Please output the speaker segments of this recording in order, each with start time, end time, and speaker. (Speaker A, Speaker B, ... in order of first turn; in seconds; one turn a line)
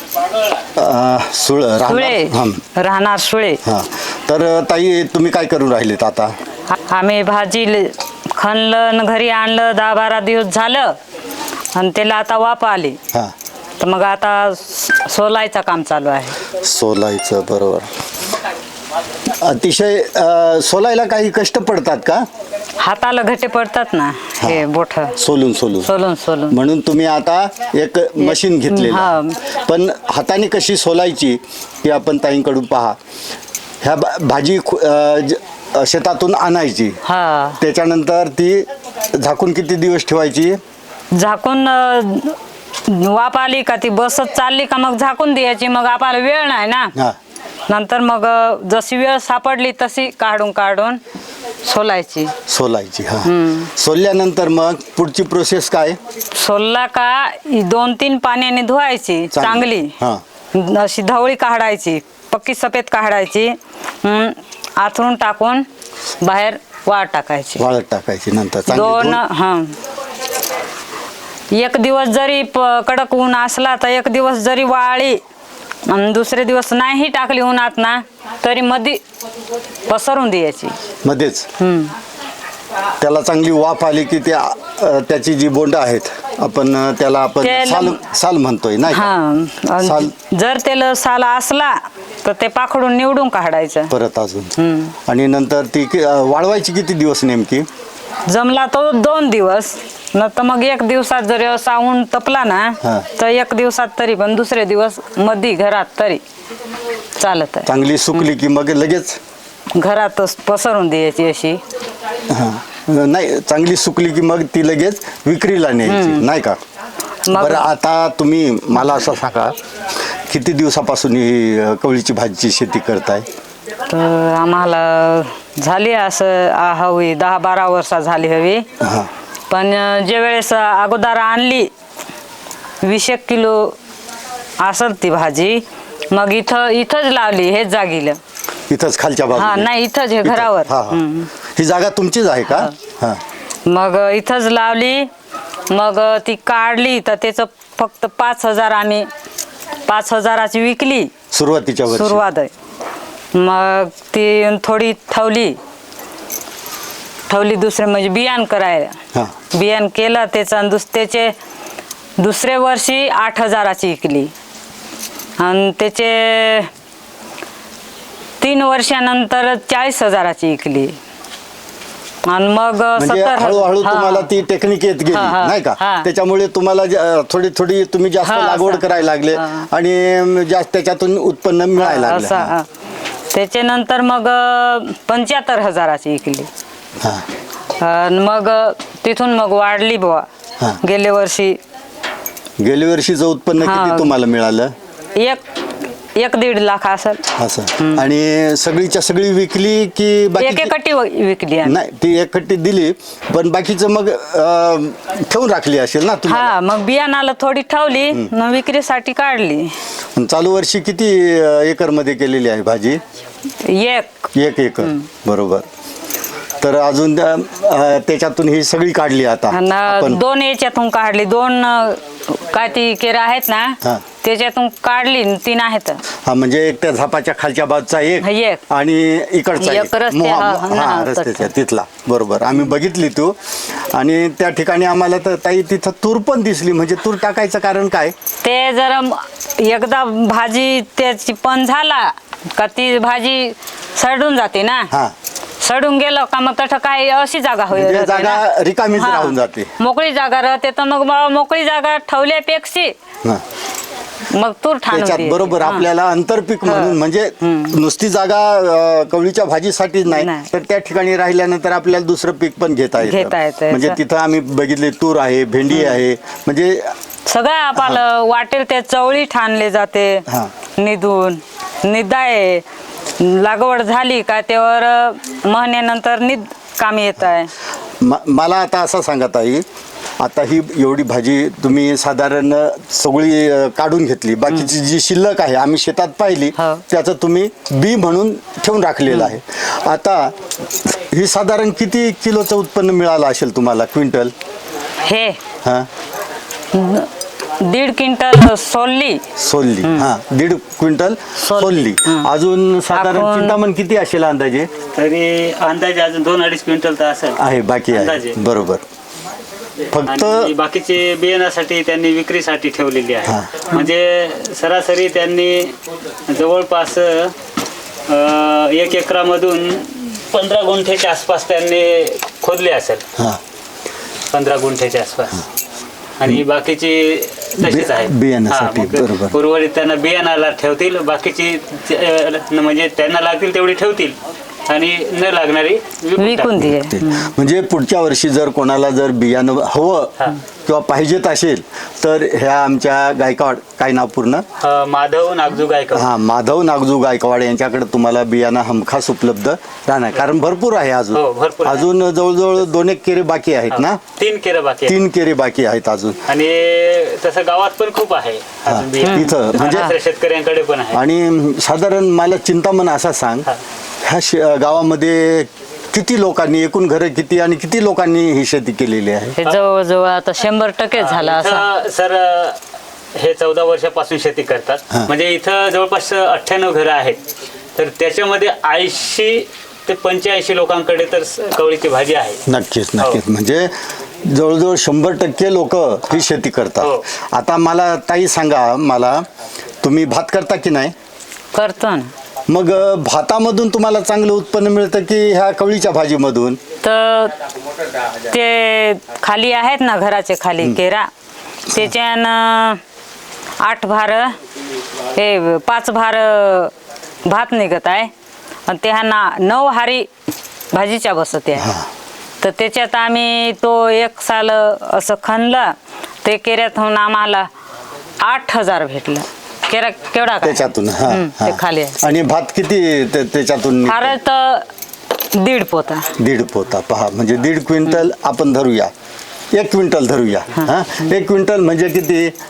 Speaker A: 0.8-2.6
Speaker B: 1.9-3.6
Speaker A: 3.6-6.3
Speaker B: 6.7-11.0
Speaker B: 11.7-13.0
Speaker B: 13.8-16.4
Speaker A: 16.6-17.9
Speaker A: 19.3-22.2
Speaker B: 22.8-25.2
Speaker A: 25.2-25.9
Speaker B: 25.8-26.6
Speaker A: 26.5-33.0
Speaker B: 28.2-29.5
Speaker A: 33.8-37.0
Speaker B: 37.0-37.6
Speaker A: 37.6-40.6
Speaker B: 41.1-46.9
Speaker B: 47.7-51.0
Speaker B: 51.6-52.4
Speaker A: 52.5-56.0
Speaker B: 53.2-53.7
Speaker B: 56.3-60.0
Speaker A: 59.3-60.2
Speaker B: 60.5-65.7
Speaker B: 66.2-67.6
Speaker A: 67.6-69.2
Speaker B: 68.7-69.8
Speaker B: 71.5-75.2
Speaker B: 75.9-79.0
Speaker B: 79.9-80.8
Speaker A: 81.0-81.5
Speaker B: 81.6-81.9
Speaker A: 83.0-89.1
Speaker B: 87.4-88.0
Speaker B: 88.9-93.9
Speaker A: 89.8-90.1
Speaker A: 93.9-97.7
Speaker B: 94.6-94.9
Speaker B: 98.3-106.2
Speaker B: 107.2-108.3
Speaker A: 107.7-109.2
Speaker B: 109.8-111.6
Speaker A: 112.3-116.6
Speaker B: 115.9-116.3
Speaker B: 117.3-117.7
Speaker A: 117.3-119.5
Speaker A: 120.2-123.2
Speaker B: 123.9-128.7
Speaker A: 128.8-129.1
Speaker B: 129.5-131.7
Speaker B: 132.8-133.8
Speaker B: 134.6-138.2
Speaker A: 138.7-139.7
Speaker B: 139.3-141.3
Speaker A: 140.2-143.2
Speaker B: 143.7-145.1
Speaker B: 145.7-149.1
Speaker B: 149.9-151.1
Speaker A: 151.3-152.2
Speaker B: 151.9-152.5
Speaker B: 153.3-155.6
Speaker B: 157.3-159.0
Speaker B: 159.5-161.3
Speaker B: 162.2-164.3
Speaker B: 165.4-166.7
Speaker B: 168.4-171.0
Speaker B: 172.2-174.3
Speaker A: 173.0-182.5
Speaker B: 175.1-176.1
Speaker B: 178.2-179.7
Speaker B: 181.8-182.7
Speaker B: 183.3-186.5
Speaker A: 187.0-187.2
Speaker B: 187.8-190.3
Speaker B: 190.8-191.6
Speaker A: 192.6-194.7
Speaker B: 193.6-194.1
Speaker B: 195.2-195.4
Speaker B: 196.2-198.1
Speaker A: 197.4-200.7
Speaker B: 200.4-201.8
Speaker A: 201.7-206.6
Speaker B: 206.3-209.8
Speaker A: 210.2-213.0
Speaker B: 213.6-214.3
Speaker A: 214.3-215.7
Speaker A: 216.6-220.2
Speaker B: 219.5-226.0
Speaker A: 226.2-238.1
Speaker B: 228.2-228.6
Speaker B: 229.6-231.5
Speaker B: 238.4-244.9
Speaker B: 245.6-248.4
Speaker A: 247.7-249.7
Speaker B: 249.0-252.9
Speaker B: 254.3-255.9
Speaker A: 254.9-266.9
Speaker B: 256.6-257.8
Speaker B: 260.1-260.5
Speaker B: 263.0-264.0
Speaker B: 267.3-272.6
Speaker A: 267.8-268.0
Speaker B: 273.2-277.5
Speaker A: 278.0-279.6
Speaker A: 280.2-294.3
Speaker B: 286.6-286.8
Speaker B: 295.0-295.4
Speaker A: 295.6-295.9
Speaker B: 296.7-299.2
Speaker A: 299.4-304.7
Speaker B: 299.8-300.1
Speaker B: 301.4-302.3
Speaker B: 302.9-303.6
Speaker C: 304.9-308.4
Speaker A: 307.4-308.8
Speaker A: 309.9-310.5
Speaker C: 310.1-315.8
Speaker A: 313.3-313.7
Speaker C: 316.3-317.4
Speaker C: 318.1-323.0
Speaker C: 324.3-325.4
Speaker C: 326.2-334.2
Speaker A: 327.6-329.4
Speaker C: 334.7-336.6
Speaker B: 336.2-337.3
Speaker A: 336.6-344.4
Speaker C: 344.6-346.1
Speaker A: 345.9-354.0
Speaker C: 351.1-351.9
Speaker C: 353.7-355.0
Speaker A: 354.9-356.2
Speaker C: 356.3-361.0
Speaker A: 358.7-359.9
Speaker B: 359.1-359.9
Speaker A: 360.9-363.5
Speaker A: 364.0-369.4
Speaker B: 369.4-371.7
Speaker C: 371.0-372.6
Speaker C: 373.1-377.2
Speaker C: 377.8-382.4
Speaker A: 382.5-389.3
Speaker A: 389.8-390.9
Speaker B: 391.5-392.1
Speaker A: 392.5-396.6
Speaker B: 396.8-397.4
Speaker B: 398.2-401.1
Speaker B: 401.7-402.8
Speaker B: 403.6-404.4
Speaker B: 405.0-406.7
Speaker B: 407.2-408.1
Speaker B: 408.7-410.1
Speaker B: 410.7-411.7
Speaker A: 411.6-411.9
Speaker B: 412.4-417.5
Speaker B: 418.2-422.0
Speaker A: 420.4-424.2
Speaker B: 423.9-426.1
Speaker A: 426.2-428.9
Speaker A: 429.5-432.3